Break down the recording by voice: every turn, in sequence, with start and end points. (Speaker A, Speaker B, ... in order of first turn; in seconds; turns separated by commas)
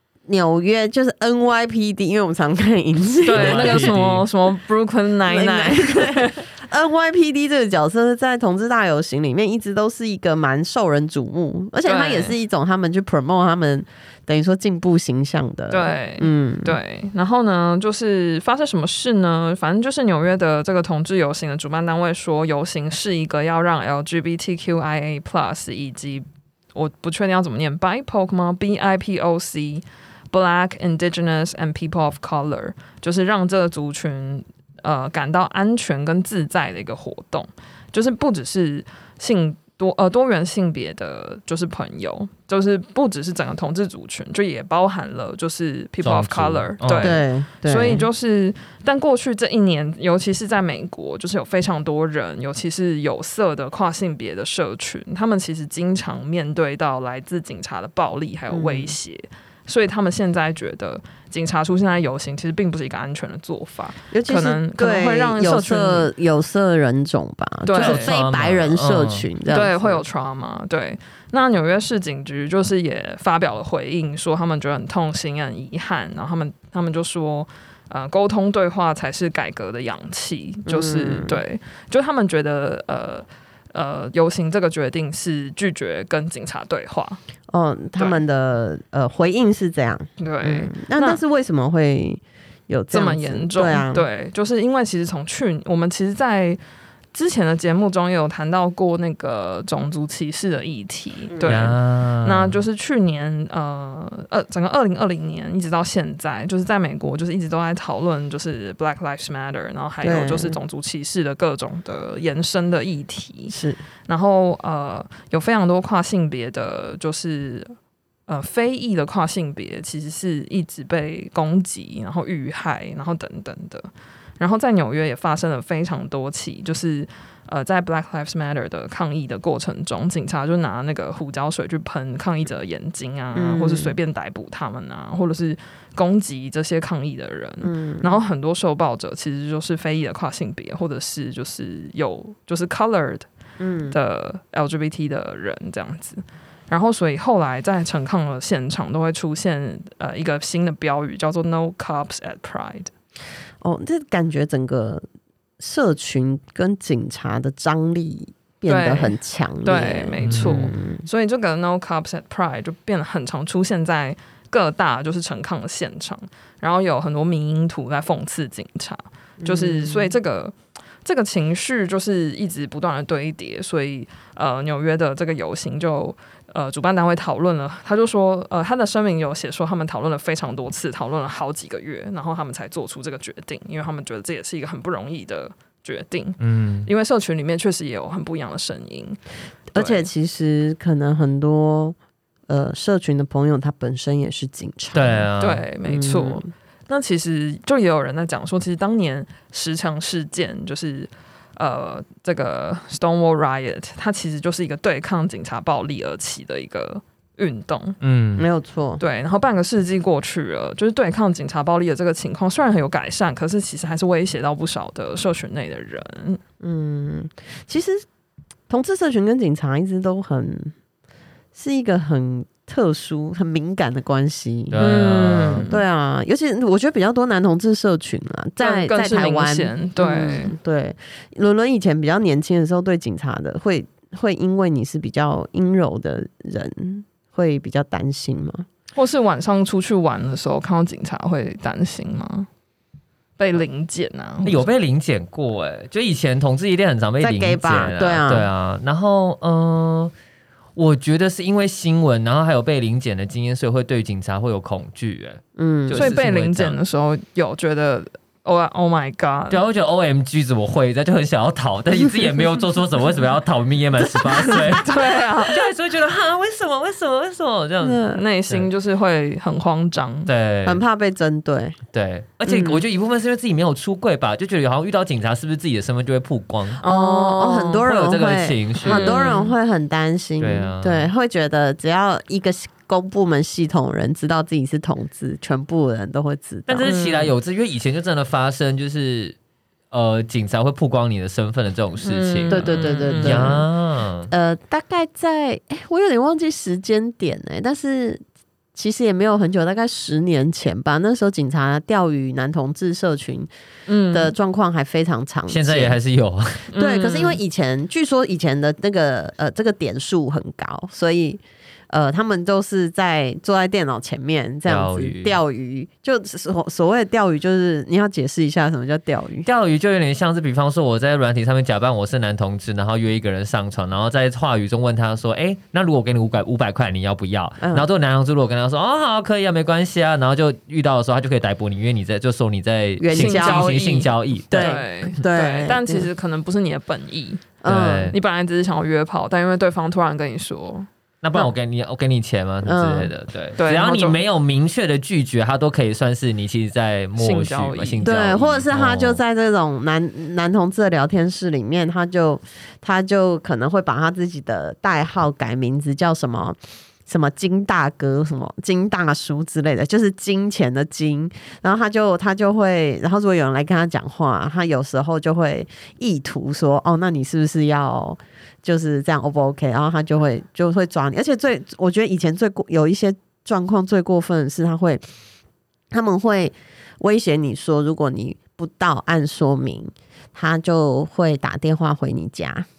Speaker A: 0.3-3.9, Speaker B: 3.2-6.5, Speaker C: 3.3-4.2, Speaker A: 5.3-16.8, Speaker B: 11.8-12.3, Speaker B: 15.7-66.1, Speaker C: 46.0-47.2, Speaker A: 47.0-48.0, Speaker A: 58.5-59.0, Speaker A: 64.1-70.0, Speaker B: 67.7-68.1, Speaker C: 67.8-69.3, Speaker B: 69.5-87.2, Speaker A: 80.7-81.4, Speaker A: 87.5-94.1, Speaker B: 90.2-91.2, Speaker B: 92.9-96.6, Speaker B: 97.1-113.5, Speaker A: 101.3-101.6, Speaker C: 101.4-102.6, Speaker A: 110.0-110.6, Speaker A: 113.5-113.8, Speaker B: 114.1-117.7, Speaker B: 118.3-143.3, Speaker A: 133.3-133.9, Speaker A: 137.6-138.1, Speaker A: 143.6-144.0, Speaker B: 143.9-152.9, Speaker A: 153.6-155.0, Speaker A: 155.6-161.1, Speaker B: 158.7-189.2, Speaker C: 160.2-160.6, Speaker A: 169.4-170.1, Speaker C: 186.4-186.9, Speaker A: 189.7-192.0, Speaker B: 189.8-190.1, Speaker A: 192.5-195.3, Speaker C: 194.9-195.6, Speaker B: 195.4-208.0, Speaker A: 195.8-196.5, Speaker C: 208.0-208.5, Speaker A: 208.4-209.0, Speaker B: 209.0-216.4, Speaker A: 216.6-218.1, Speaker A: 218.7-220.7, Speaker A: 221.6-225.0, Speaker C: 224.7-225.7, Speaker B: 224.8-225.8, Speaker A: 225.7-238.7, Speaker B: 228.6-230.6, Speaker B: 238.9-242.5, Speaker B: 243.4-244.7, Speaker C: 244.4-250.1, Speaker A: 247.2-248.5, Speaker C: 250.8-256.8, Speaker A: 255.6-256.1, Speaker B: 255.9-259.6, Speaker C: 259.5-268.7, Speaker B: 264.3-265.6, Speaker A: 267.8-268.2, Speaker B: 268.1-270.3, Speaker C: 270.3-270.8, Speaker A: 270.6-271.8, Speaker C: 271.9-276.8, Speaker A: 272.5-272.8, Speaker B: 276.8-277.8, Speaker A: 276.8-286.9, Speaker C: 277.8-279.3, Speaker B: 278.8-279.5, Speaker C: 280.4-281.1, Speaker C: 286.7-289.4, Speaker B: 286.8-287.3, Speaker C: 289.9-294.3, Speaker B: 292.0-293.6, Speaker A: 292.5-293.7, Speaker A: 294.3-298.2, Speaker A: 298.8-303.5, Speaker B: 303.9-304.3, Speaker A: 304.1-306.0, Speaker C: 305.5-306.7, Speaker B: 306.7-307.4, Speaker A: 306.7-319.5, Speaker C: 314.7-315.4, Speaker C: 319.4-334.8, Speaker A: 327.6-327.9, Speaker A: 333.0-333.8, Speaker B: 333.1-337.5, Speaker A: 334.5-336.1, Speaker A: 337.6-338.1, Speaker C: 337.7-338.2, Speaker B: 338.1-340.9, Speaker C: 341.2-349.2, Speaker A: 342.6-343.1, Speaker B: 343.6-344.2, Speaker B: 347.2-348.0, Speaker A: 348.0-375.0, Speaker A: 375.9-382.7